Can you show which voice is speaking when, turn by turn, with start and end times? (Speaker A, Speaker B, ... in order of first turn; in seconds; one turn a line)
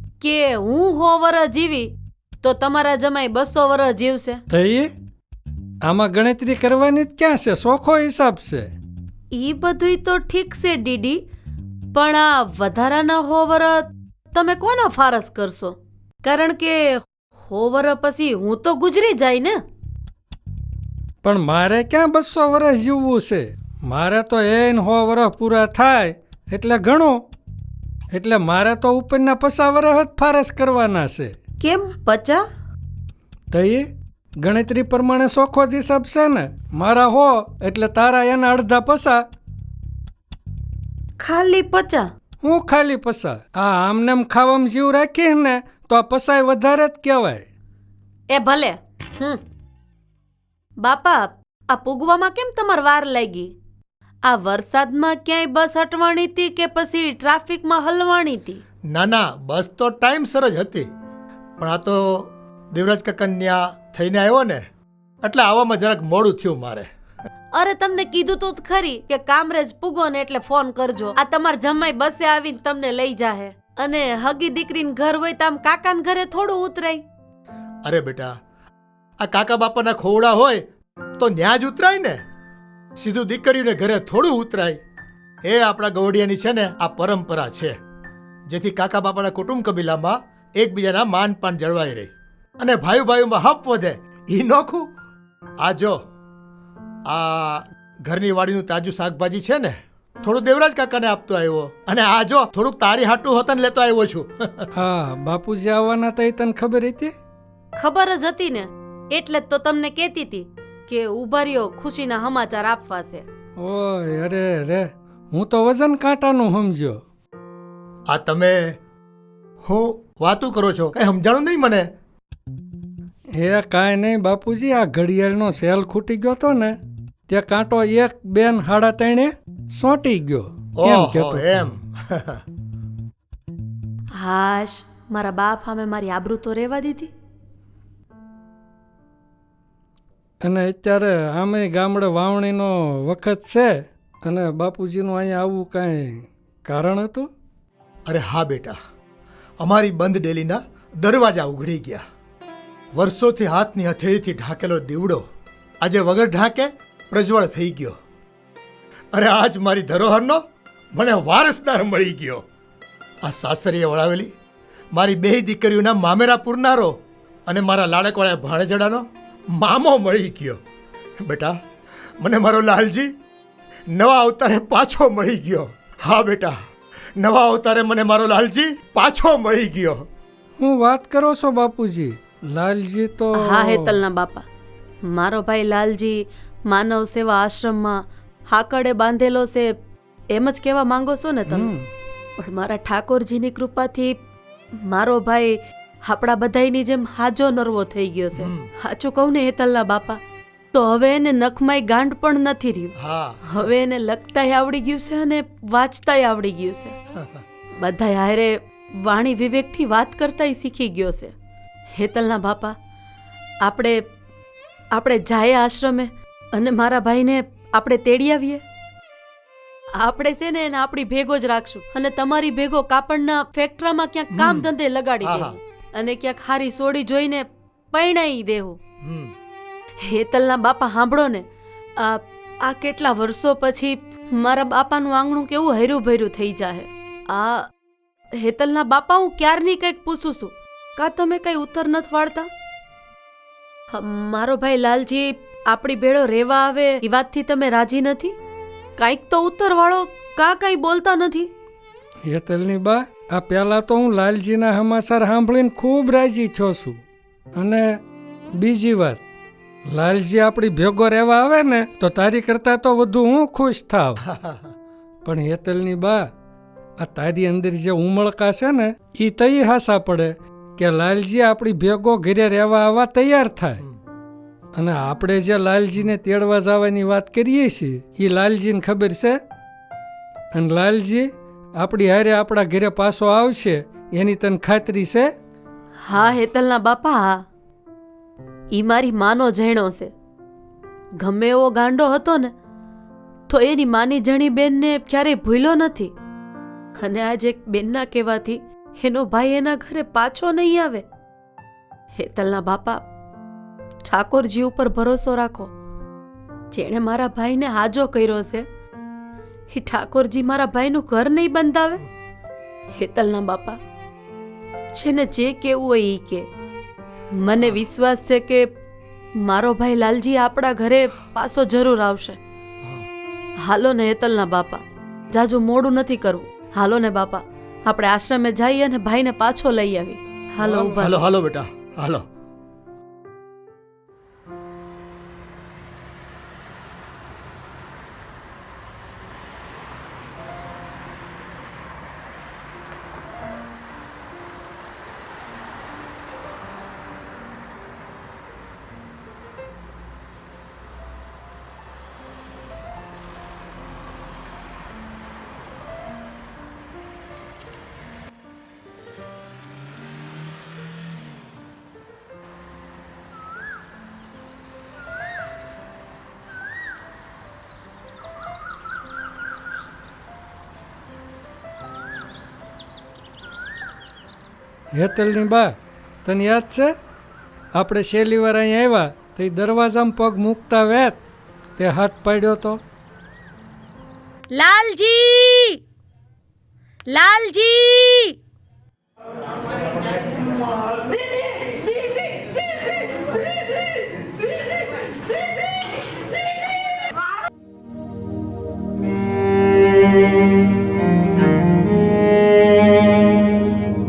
Speaker A: 0.2-1.9
Speaker A: 2.4-4.4
Speaker B: 4.5-4.9
Speaker B: 5.8-8.7
Speaker A: 9.3-11.2
Speaker A: 11.9-19.6
Speaker B: 21.2-27.2
Speaker B: 28.1-31.4
Speaker A: 31.6-32.5
Speaker B: 33.5-33.9
Speaker B: 34.4-39.3
Speaker A: 41.2-42.1
Speaker B: 42.4-47.5
Speaker A: 48.3-49.4
Speaker A: 50.8-53.5
Speaker A: 54.2-58.6
Speaker C: 58.9-60.9
Speaker C: 61.6-64.7
Speaker C: 65.2-66.9
Speaker A: 67.5-77.0
Speaker C: 77.8-78.4
Speaker C: 79.2-80.7
Speaker C: 81.2-82.2
Speaker C: 83.0-84.8
Speaker C: 85.4-87.8
Speaker C: 88.5-94.9
Speaker C: 95.6-96.0
Speaker C: 97.1-104.7
Speaker B: 104.8-107.1
Speaker A: 107.8-113.2
Speaker B: 113.6-117.0
Speaker C: 118.1-118.8
Speaker C: 119.6-121.9
Speaker B: 123.4-126.8
Speaker B: 127.3-131.7
Speaker C: 130.8-132.4
Speaker A: 134.2-137.1
Speaker B: 140.4-147.3
Speaker C: 148.1-148.8
Speaker C: 149.6-152.0
Speaker C: 152.9-155.3
Speaker C: 155.8-158.0
Speaker C: 159.1-162.4
Speaker C: 163.2-164.3
Speaker C: 164.9-170.6
Speaker C: 171.2-171.6
Speaker C: 172.2-173.1
Speaker C: 173.9-176.6
Speaker C: 177.2-180.1
Speaker B: 180.6-183.9
Speaker A: 183.3-184.5
Speaker A: 185.1-189.7
Speaker A: 190.3-191.7
Speaker B: 191.5-191.9
Speaker A: 192.4-194.2
Speaker A: 194.8-200.2
Speaker C: 198.3-198.7
Speaker A: 200.7-202.9
Speaker C: 203.0-203.4
Speaker A: 203.4-206.9
Speaker C: 207.2-207.4
Speaker A: 207.8-211.3
Speaker A: 212.0-212.8
Speaker A: 213.6-214.0
Speaker A: 214.9-218.6
Speaker A: 220.0-228.8
Speaker C: 224.3-224.7
Speaker C: 225.2-225.6
Speaker C: 229.0-229.3
Speaker A: 230.0-231.5
Speaker A: 232.0-237.7
Speaker A: 238.3-242.5
Speaker A: 243.9-248.4
Speaker A: 249.0-251.5
Speaker B: 252.3-257.0
Speaker B: 257.6-258.0
Speaker B: 258.6-259.2
Speaker B: 259.9-264.2
Speaker C: 264.2-264.7
Speaker B: 265.2-266.3
Speaker B: 267.0-273.8
Speaker B: 274.8-279.4
Speaker B: 280.5-285.3
Speaker A: 286.0-287.4
Speaker A: 288.7-290.1
Speaker A: 291.2-292.5
Speaker A: 293.5-296.1
Speaker A: 297.0-301.1
Speaker A: 302.1-303.0
Speaker A: 304.0-305.7
Speaker A: 306.7-308.7
Speaker A: 309.7-312.0
Speaker A: 313.0-313.8
Speaker A: 314.9-316.5
Speaker A: 317.4-318.7
Speaker A: 319.4-322.4
Speaker A: 323.6-331.2
Speaker B: 330.6-330.9
Speaker C: 330.9-332.3
Speaker B: 374.9-377.0
Speaker B: 377.7-381.2
Speaker B: 381.8-382.8
Speaker A: 384.5-385.8
Speaker A: 387.1-388.4